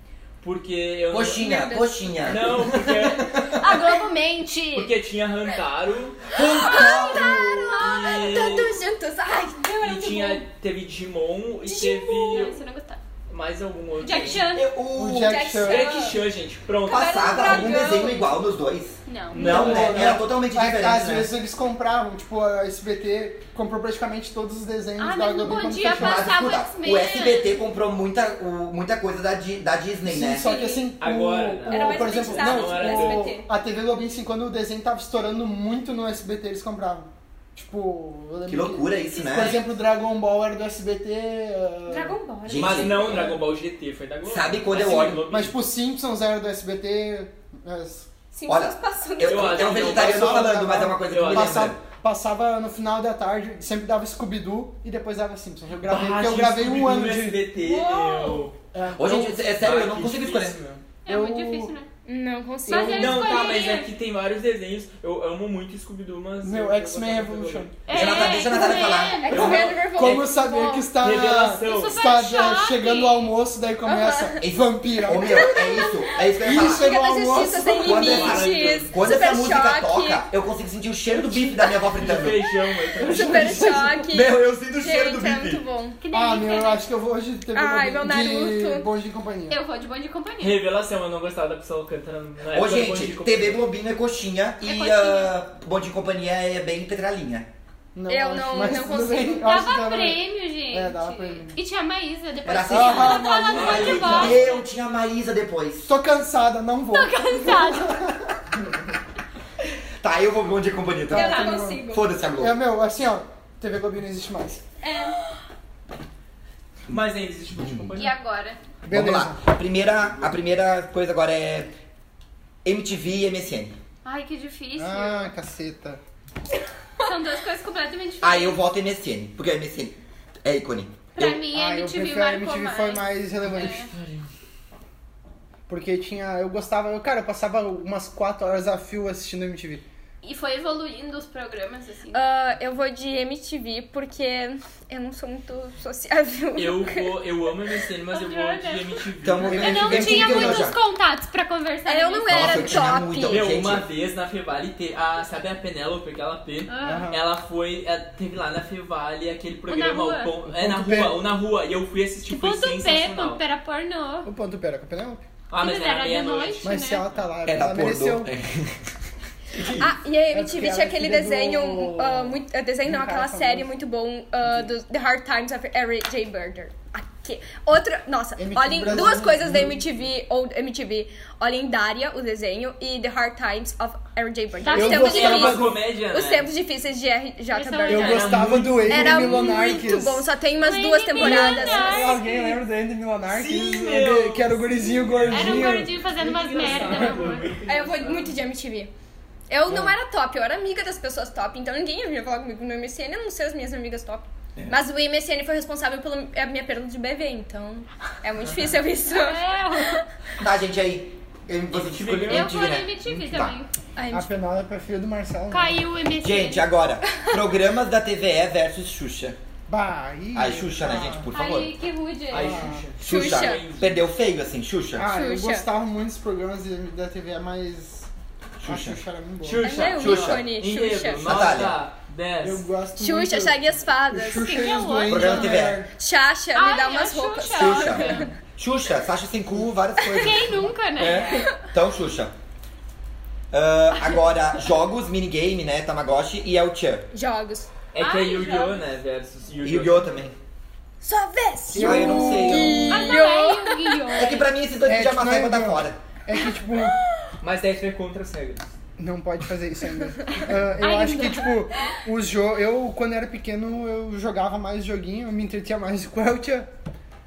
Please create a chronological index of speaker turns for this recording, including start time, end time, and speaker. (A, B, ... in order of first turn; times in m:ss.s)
0:00.4-0:01.6 A
0:01.1-0:03.7 B
0:01.3-0:02.1 C
0:02.2-0:03.5 A
0:03.6-0:04.9 D
0:04.7-0:06.3 A
0:06.3-0:07.8 B
0:06.4-0:10.4 C
0:06.7-0:07.3 D
0:07.8-0:08.8 A
0:09.8-0:12.6 A
0:11.7-0:12.5 C
0:11.9-0:13.0 D
0:13.3-0:14.5 A
0:14.0-0:14.8 D
0:14.4-0:15.4 B
0:14.9-0:15.9 E
0:15.2-0:16.2 C
0:15.6-0:17.7 A
0:16.9-0:18.3 C
0:16.9-0:21.3 B
0:19.1-0:19.6 D
0:19.3-0:20.2 A
0:19.4-0:26.4 E
0:25.0-0:27.6 D
0:26.0-0:30.5 B
0:30.0-0:42.2 E
0:30.4-0:30.9 C
0:31.0-0:33.3 A
0:31.7-0:33.5 C
0:38.5-0:39.6 B
0:41.9-0:43.3 C
0:42.4-0:43.4 B
0:42.6-0:45.6 A
0:44.2-0:45.2 B
0:45.3-0:48.1 E
0:48.3-0:49.8 C
0:48.5-0:51.8 B
0:49.2-0:51.7 A
0:49.7-0:57.4 E
0:55.8-0:58.6 A
0:57.6-0:58.5 C
0:58.7-0:59.5 E
0:58.9-1:00.6 B
0:59.6-1:00.8 A
1:01.0-1:01.9 D
1:01.1-1:01.7 E
1:02.1-1:03.7 C
1:02.7-1:03.9 D
1:02.7-1:08.5 A
1:02.7-1:03.0 E
1:06.4-1:08.0 E
1:07.9-1:09.5 D
1:07.9-1:09.7 B
1:09.0-1:10.9 C
1:09.3-1:18.1 E
1:09.4-1:10.4 A
1:11.0-1:12.0 A
1:11.6-1:13.3 D
1:13.8-1:14.4 C
1:14.4-1:16.9 B
1:15.2-1:20.2 C
1:17.7-1:22.4 B
1:17.9-1:18.9 A
1:21.9-1:23.6 A
1:23.0-1:24.0 E
1:23.0-1:26.0 C
1:24.1-1:25.6 B
1:26.0-1:26.9 D
1:26.1-1:29.6 E
1:27.5-1:28.9 C
1:29.5-1:30.6 D
1:30.4-1:33.6 A
1:32.5-1:37.5 B
1:34.6-1:35.4 D
1:37.9-1:41.6 E
1:38.1-1:39.5 C
1:39.3-1:44.6 D
1:42.4-1:46.0 B
1:42.7-1:44.2 E
1:43.5-1:44.6 A
1:45.8-1:48.3 E
1:46.9-1:48.0 D
1:50.0-1:52.6 B
1:51.1-1:54.6 E
1:51.1-1:52.0 C
1:51.2-1:51.6 D
1:54.8-1:55.2 C
1:54.8-1:55.1 D
1:56.9-1:58.2 A
1:58.0-1:58.6 D
1:58.8-1:59.4 E
1:58.9-2:01.7 B
2:02.6-2:03.8 B
2:04.0-2:05.3 D
2:04.8-2:06.0 E
2:07.0-2:08.6 D
2:08.2-2:11.4 B
2:11.2-2:13.9 D
2:11.2-2:13.8 E
2:13.5-2:14.3 A
2:15.7-2:19.8 E
2:20.2-2:22.2 D
2:22.1-2:27.2 C
2:26.6-2:30.3 A
2:28.1-2:32.8 D
2:29.2-2:30.8 B
2:29.4-2:30.6 E
2:31.9-2:33.5 C
2:32.3-2:33.9 B
2:33.2-2:43.4 A
2:36.7-2:37.1 D
2:36.8-2:37.2 E
2:39.7-2:40.3 D
2:40.5-2:41.2 E
2:42.3-2:44.3 D
2:44.2-2:45.2 E
2:45.5-2:47.2 A
2:45.6-2:47.1 D
2:46.6-2:48.3 E
2:47.4-2:48.9 B
2:49.6-2:49.9 B
2:49.6-2:53.7 E
2:49.8-3:12.2 C
2:58.4-2:59.8 E
3:04.7-3:05.5 D
3:04.7-3:05.8 E
3:04.8-3:06.5 A
3:07.5-3:08.4 D
3:07.9-3:09.6 A
3:07.9-3:10.2 E
3:10.6-3:12.6 D
3:11.2-3:16.0 E
3:13.3-3:18.4 A
3:15.3-3:17.6 D
3:17.7-3:18.9 C
3:19.5-3:30.0 C
3:19.7-3:19.9 E
3:29.1-3:30.0 D
3:30.4-3:33.6 B
3:31.7-3:32.6 A
3:32.3-3:33.7 D
3:34.0-3:34.3 C
3:34.1-3:35.8 E
3:35.5-3:36.7 D
3:36.2-3:39.4 B
3:39.7-3:41.3 E
3:40.3-3:41.7 B
3:41.3-3:42.8 D
3:42.3-3:44.0 A
3:42.4-3:42.8 E
3:43.0-3:45.1 B
3:43.0-3:43.6 C
3:45.0-3:48.1 E
3:45.1-3:45.7 C
3:48.6-3:49.0 B
3:48.6-3:49.7 E
3:49.4-3:52.6 A
3:49.6-3:51.5 C
3:50.0-3:50.5 B
3:51.2-3:51.8 B
3:52.4-3:55.9 E
3:53.0-3:54.6 C
3:54.3-3:55.7 D
3:55.0-3:55.8 B
3:56.0-3:58.3 C
3:56.6-3:58.3 D
3:57.6-4:02.3 B
4:00.1-4:01.5 D
4:03.5-4:07.1 B
4:07.1-4:07.7 C
4:07.9-4:10.1 A
4:08.0-4:08.8 D
4:09.6-4:10.3 B
4:11.0-4:14.3 C
4:11.7-4:13.2 E
4:11.8-4:12.9 B
4:12.9-4:14.5 D
4:14.2-4:16.0 B
4:14.8-4:17.0 E
4:16.4-4:17.3 C
4:17.4-4:18.7 A
4:19.0-4:26.7 E
4:20.8-4:21.6 D